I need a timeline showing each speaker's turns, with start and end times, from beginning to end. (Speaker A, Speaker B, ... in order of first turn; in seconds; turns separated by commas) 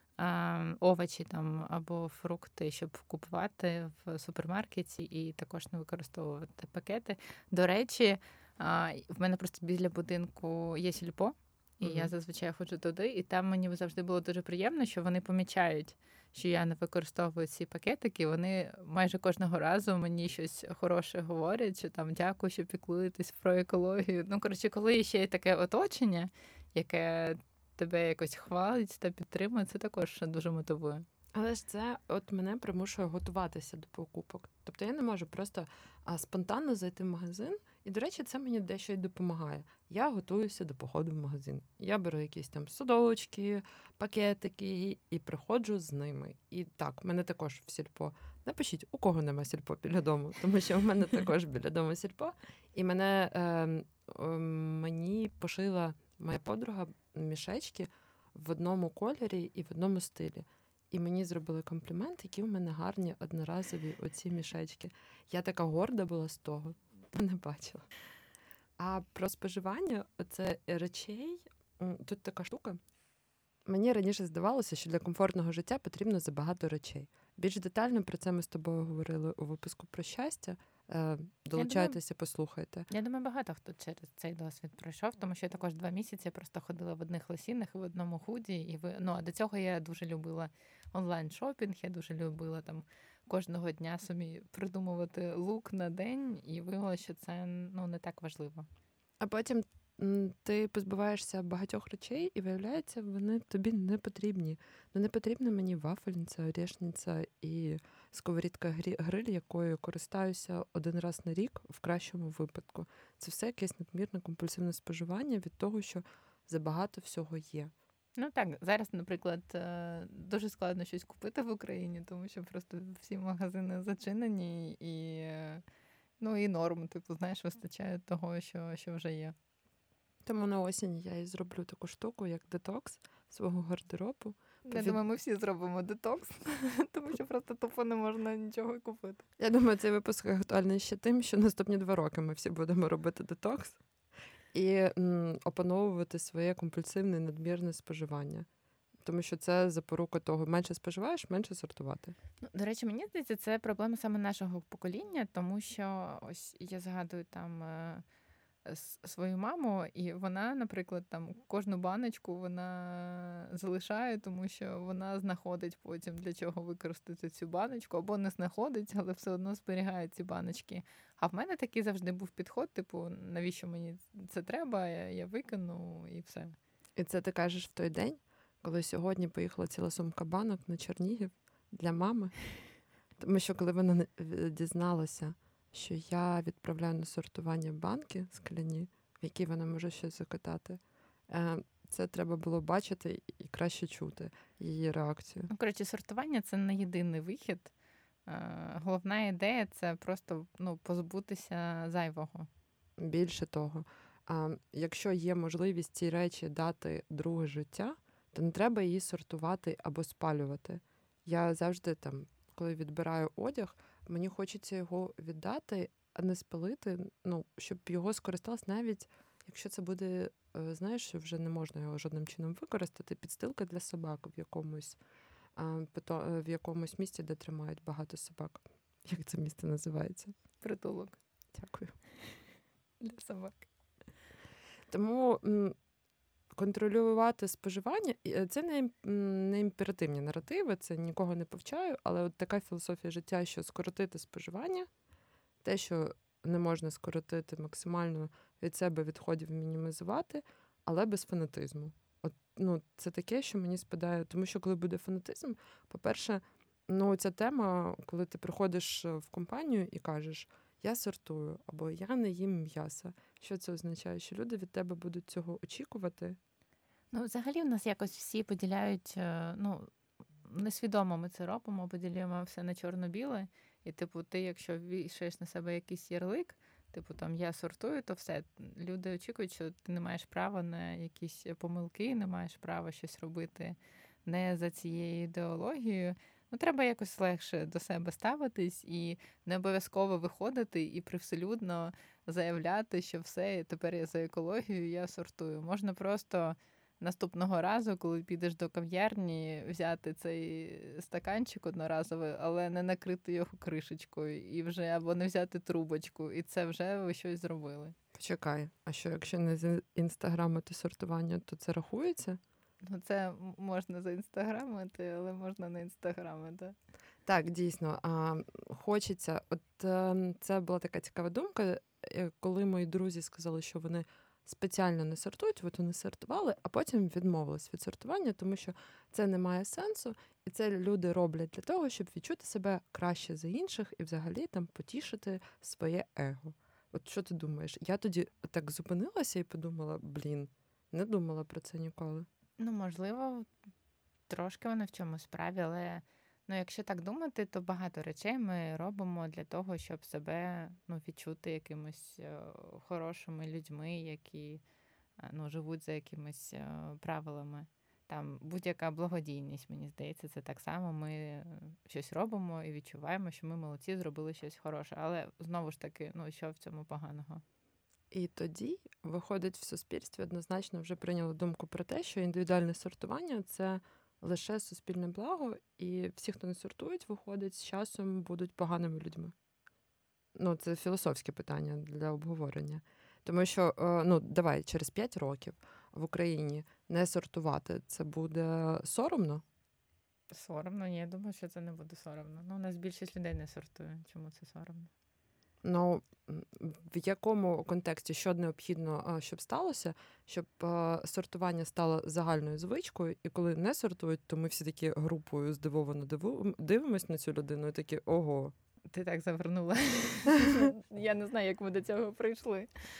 Speaker A: 0.2-31.1, Speaker B: 11.8-12.1, Speaker B: 31.3-67.8, Speaker B: 68.8-72.8, Speaker B: 73.7-82.9, Speaker A: 81.6-82.0, Speaker A: 82.9-98.7, Speaker B: 99.2-117.7, Speaker A: 118.2-125.6, Speaker A: 126.2-129.3, Speaker B: 130.2-135.0, Speaker A: 134.7-139.2, Speaker B: 139.4-143.8, Speaker B: 144.5-148.4, Speaker B: 149.0-152.1, Speaker A: 152.4-158.0, Speaker A: 158.6-176.5, Speaker B: 177.0-182.3, Speaker B: 183.2-195.5, Speaker A: 195.5-197.7, Speaker A: 198.3-202.5, Speaker B: 203.0-225.0, Speaker B: 225.6-230.3, Speaker A: 230.6-231.2, Speaker B: 231.5-231.9, Speaker A: 233.0-233.7, Speaker B: 234.9-235.8, Speaker B: 236.6-244.9, Speaker B: 245.6-266.4, Speaker A: 267.1-269.9, Speaker A: 270.4-307.9, Speaker B: 308.1-312.4, Speaker A: 312.8-316.7, Speaker B: 317.2-342.3, Speaker A: 342.6-343.5, Speaker A: 344.3-354.6, Speaker A: 355.2-367.4, Speaker B: 368.1-379.3, Speaker B: 380.4-389.4, Speaker A: 390.3-394.9, Speaker B: 395.6-408.5, Speaker A: 408.9-412.7